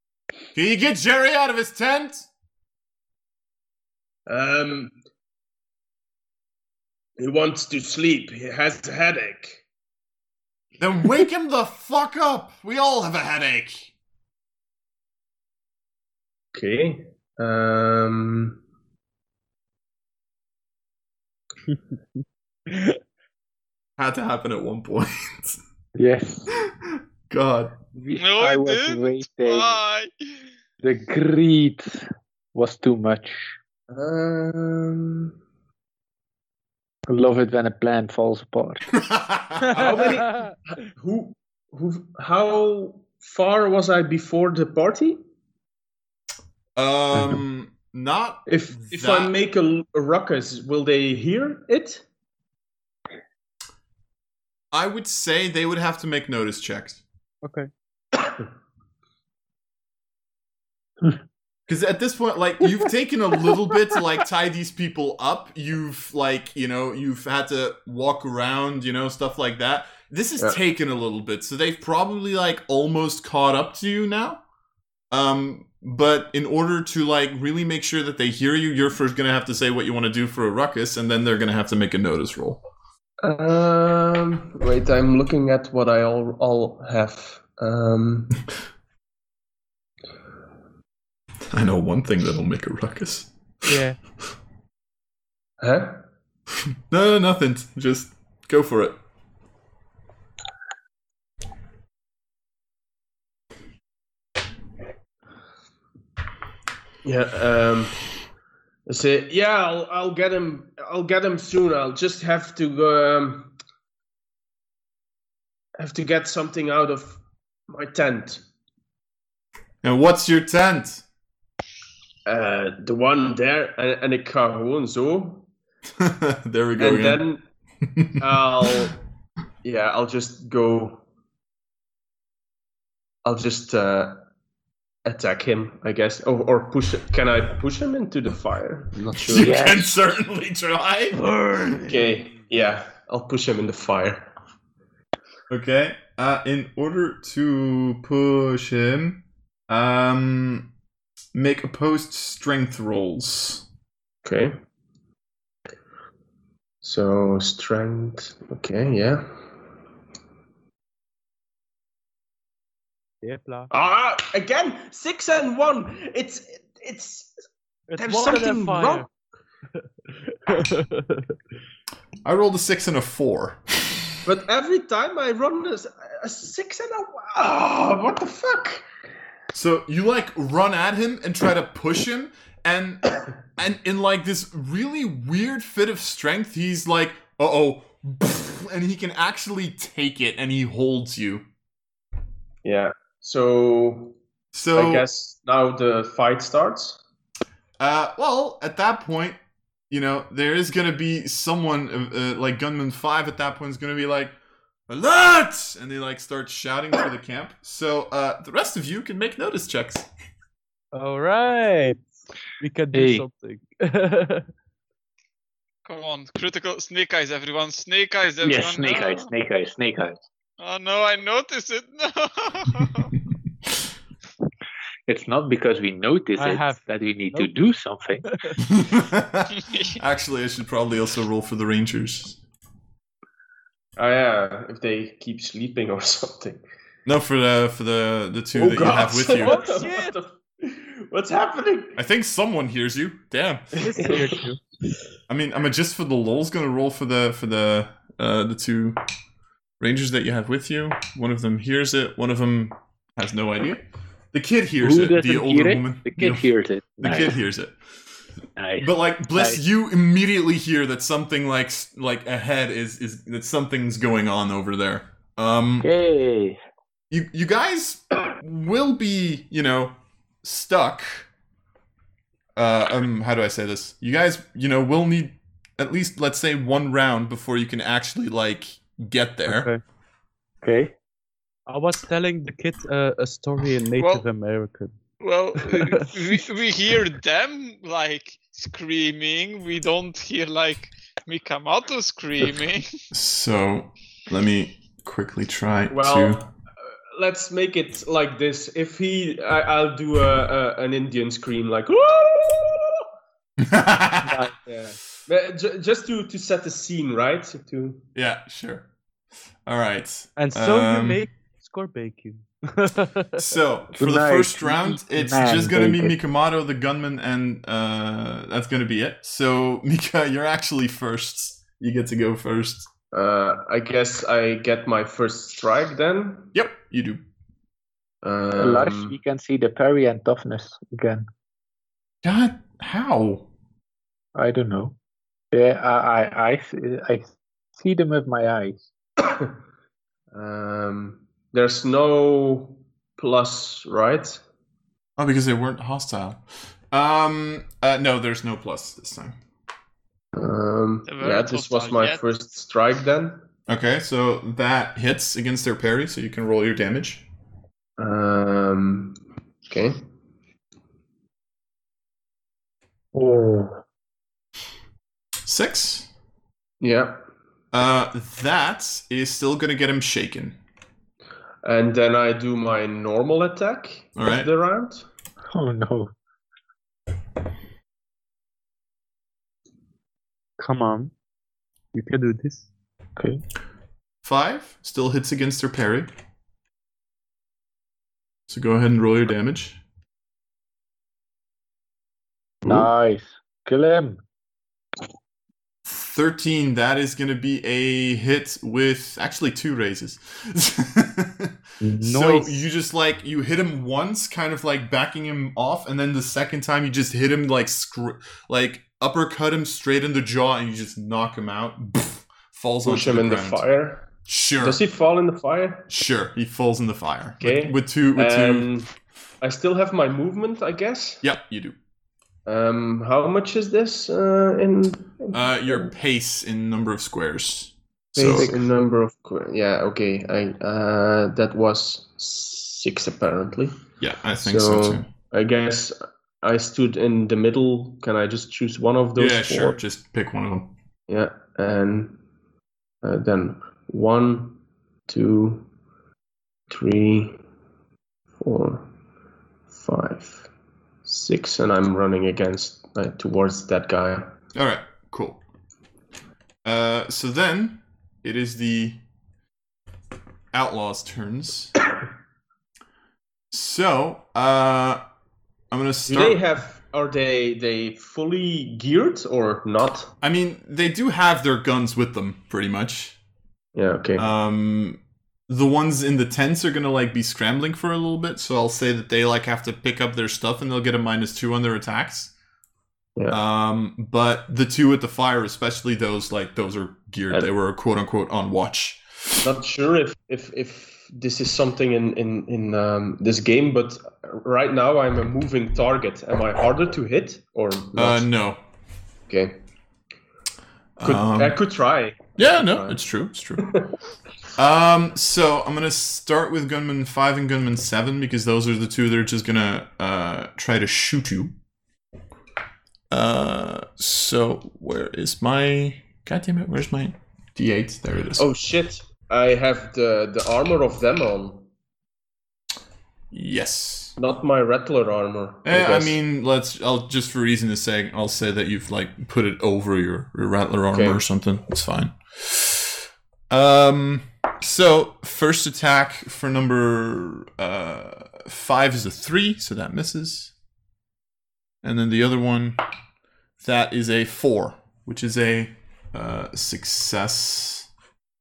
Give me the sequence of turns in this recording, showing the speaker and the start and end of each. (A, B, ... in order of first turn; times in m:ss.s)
0:00.6-0:02.3 A
0:04.3-0:05.0 B
0:07.2-0:09.6 B
0:10.8-0:13.9 A
0:16.5-0:18.6 B
0:24.0-0:25.6 A
0:26.0-0:26.5 C
0:26.9-0:27.8 A
0:27.9-0:29.8 C
0:28.2-0:30.1 D
0:30.8-0:33.6 C
0:33.9-0:35.4 B
0:37.1-0:38.8 C
0:39.0-0:39.8 A
0:39.6-0:40.5 E
0:39.7-0:45.2 B
0:46.8-0:49.3 A
0:48.5-0:52.0 B
0:54.7-0:57.0 A
0:57.4-0:57.7 E
1:01.7-1:14.4 A
1:15.1-1:22.6 A
1:23.2-1:28.4 B
1:31.5-1:33.3 A
1:33.6-1:34.0 E
1:35.6-1:36.0 B
1:36.9-1:39.0 A
1:47.0-1:48.0 B
1:48.9-1:53.5 B
1:55.8-1:58.4 B
1:59.8-2:01.0 A
2:02.3-2:05.5 B
2:06.0-2:07.2 A
2:06.8-2:07.4 B
2:07.8-2:08.2 A
2:08.2-2:09.0 B
2:09.6-2:11.0 B
2:13.2-2:14.2 B
2:15.0-2:19.8 B
2:19.2-2:21.3 A
2:19.4-2:19.9 C
2:21.2-2:22.1 E
2:21.8-2:24.3 B
2:25.5-2:30.7 A
2:31.3-2:33.6 A
2:34.2-2:34.6 B
2:36.8-2:39.3 B
2:43.2-2:43.7 E
2:43.7-2:47.3 B
2:47.9-2:49.1 E
2:48.0-2:49.1 B
2:50.1-2:51.4 E
2:52.2-2:54.2 A
2:54.2-2:58.8 B
2:59.5-3:11.5 A
3:12.6-3:14.2 B
3:14.5-3:15.1 A
3:14.7-3:17.0 B
3:17.8-3:19.4 A
3:19.9-3:24.4 A
3:24.9-3:30.1 A
3:30.9-3:34.5 E
3:32.9-3:33.3 C
3:35.9-3:39.3 D
3:38.4-3:40.2 C
3:40.6-3:43.1 D
3:45.1-3:48.2 C
3:46.4-3:47.5 E
3:48.2-3:48.6 E
3:48.7-3:52.4 A
3:49.6-3:50.0 D
3:54.0-3:56.6 B
3:57.1-3:59.6 A
3:58.6-4:02.0 B
3:59.3-4:00.1 E
4:02.0-4:03.8 A
4:03.8-4:04.6 E
4:04.0-4:04.3 B
4:05.3-4:09.0 A
4:09.8-4:17.8 A
4:14.8-4:17.4 C
4:18.6-4:19.6 C
4:18.8-4:25.9 A
4:25.8-4:26.6 C
4:27.1-4:31.3 A
4:32.6-4:39.7 A
4:39.5-4:39.8 E
4:40.6-4:40.9 C
4:41.7-4:45.0 E
4:44.0-4:44.3 D
4:45.2-4:52.9 D
4:45.6-4:46.3 E
4:53.1-4:56.5 A
4:55.9-4:56.5 B
4:57.1-5:03.1 B
5:03.6-5:04.5 A
5:04.6-5:08.0 B
5:08.2-5:08.9 A
5:09.7-5:11.3 A
5:10.4-5:13.5 E
5:13.4-5:22.9 A
5:14.0-5:16.2 C
5:23.1-5:26.5 B
5:26.5-5:27.2 A
5:28.2-5:29.2 B
5:28.6-5:31.3 C
5:32.2-5:33.5 A
5:34.4-5:35.0 C
5:35.5-5:38.9 C
5:39.2-5:39.5 B
5:40.3-5:44.4 B
5:45.2-5:49.4 A
5:50.3-5:53.4 B
5:51.1-5:52.2 D
5:53.7-5:57.2 A
5:58.0-6:00.0 B
6:03.1-6:03.8 C
6:05.4-6:06.1 A
6:06.8-6:07.2 B
6:07.7-6:10.6 A
6:11.6-6:15.1 B
6:14.2-6:14.5 A
6:15.5-6:16.1 C
6:20.6-6:21.1 E
6:21.9-6:22.7 E
6:24.2-6:26.1 A
6:28.5-6:29.8 A
6:32.6-6:34.2 C
6:35.8-6:53.6 A
6:41.8-6:42.6 E
6:52.8-6:54.1 B
6:54.3-6:54.8 A
6:54.6-6:55.9 B
6:55.9-6:58.7 A
6:57.4-7:01.2 B
7:01.2-7:01.8 A
7:02.5-7:05.9 B
7:05.3-7:08.6 A
7:08.2-7:13.8 B
7:08.4-7:08.6 C
7:14.0-7:15.1 A
7:14.4-7:19.8 B
7:19.2-7:20.7 A
7:21.1-7:22.2 B
7:23.0-7:25.7 B
7:26.7-7:27.4 B
7:28.4-7:28.9 B
7:29.7-7:30.5 B
7:31.0-7:34.3 B
7:34.6-7:35.4 A
7:36.6-7:39.0 A
7:40.5-7:41.8 A
7:43.5-7:45.0 A
7:45.7-7:46.4 A
7:46.1-7:50.1 B
7:50.2-7:53.2 A
7:53.8-7:54.3 B
7:54.2-8:02.3 A
8:03.3-8:09.4 A
8:09.4-8:18.3 B
8:18.0-8:18.6 A
8:19.3-8:19.6 B
8:21.0-8:21.6 A
8:21.0-8:23.0 B
8:22.4-8:23.7 A
8:23.6-8:23.9 B
8:24.6-8:31.5 A
8:33.1-8:38.5 A
8:38.4-8:41.7 B
8:43.3-8:44.2 A
8:44.2-8:46.2 B
8:45.6-9:00.5 A
8:50.9-8:51.2 B
9:01.8-9:02.8 A
9:03.6-9:07.9 A